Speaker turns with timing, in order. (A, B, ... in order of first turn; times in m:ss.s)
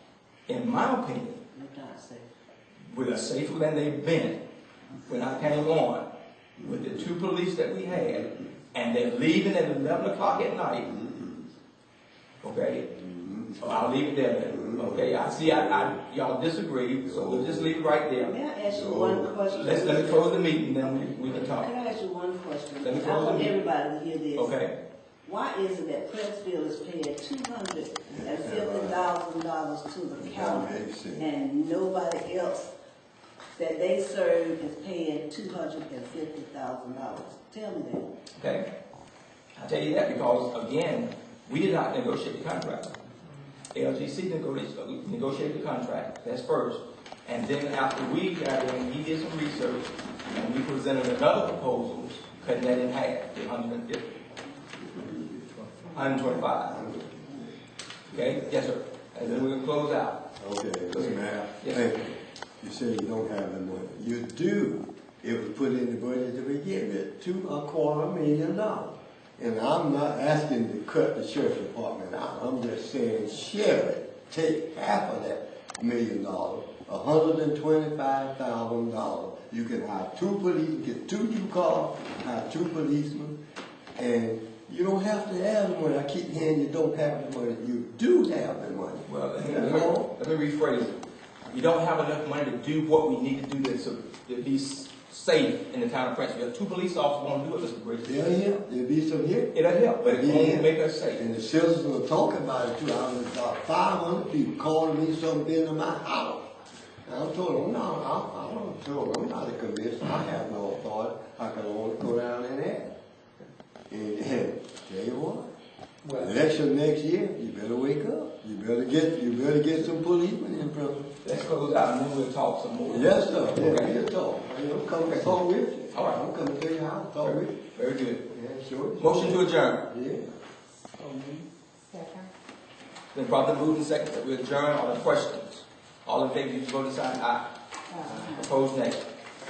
0:00.5-0:01.4 A
0:01.5-0:02.3 B
0:02.9-0:04.4 A
0:05.0-0:06.1 A
0:06.6-0:07.1 C
0:06.6-0:10.9 A
0:10.8-0:11.5 C
0:12.4-0:12.9 A
0:12.9-0:13.9 C
0:13.6-0:18.3 A
0:14.5-0:16.0 C
0:17.0-0:17.8 C
0:18.2-0:24.6 B
0:18.7-0:19.4 C
0:19.5-0:21.7 A
0:22.8-0:23.6 A
0:24.4-0:24.8 A
0:25.2-0:32.7 B
0:28.1-0:29.1 C
0:30.2-0:31.3 C
0:33.6-0:38.1 B
0:38.4-0:38.7 A
0:39.6-0:43.0 A
0:43.7-0:54.2 A
0:54.8-0:55.8 C
0:55.9-0:56.8 A
0:56.4-0:57.5 C
0:58.1-0:58.6 C
0:58.1-1:00.2 A
0:59.2-0:59.4 C
1:00.4-1:23.4 C
1:00.9-1:01.9 A
1:24.0-1:30.1 C
1:29.1-1:38.4 A
1:38.0-1:46.5 C
1:39.5-1:41.2 A
1:47.0-1:52.9 C
1:53.9-1:55.5 C
1:56.0-1:56.3 D
1:56.1-2:01.3 C
2:01.2-2:04.0 A
2:02.9-2:07.6 C
2:05.0-2:05.3 A
2:05.9-2:06.3 A
2:07.2-2:08.3 A
2:08.3-2:10.3 C
2:09.0-2:09.9 A
2:11.0-2:12.3 D
2:13.1-2:19.0 A
2:17.9-2:18.5 D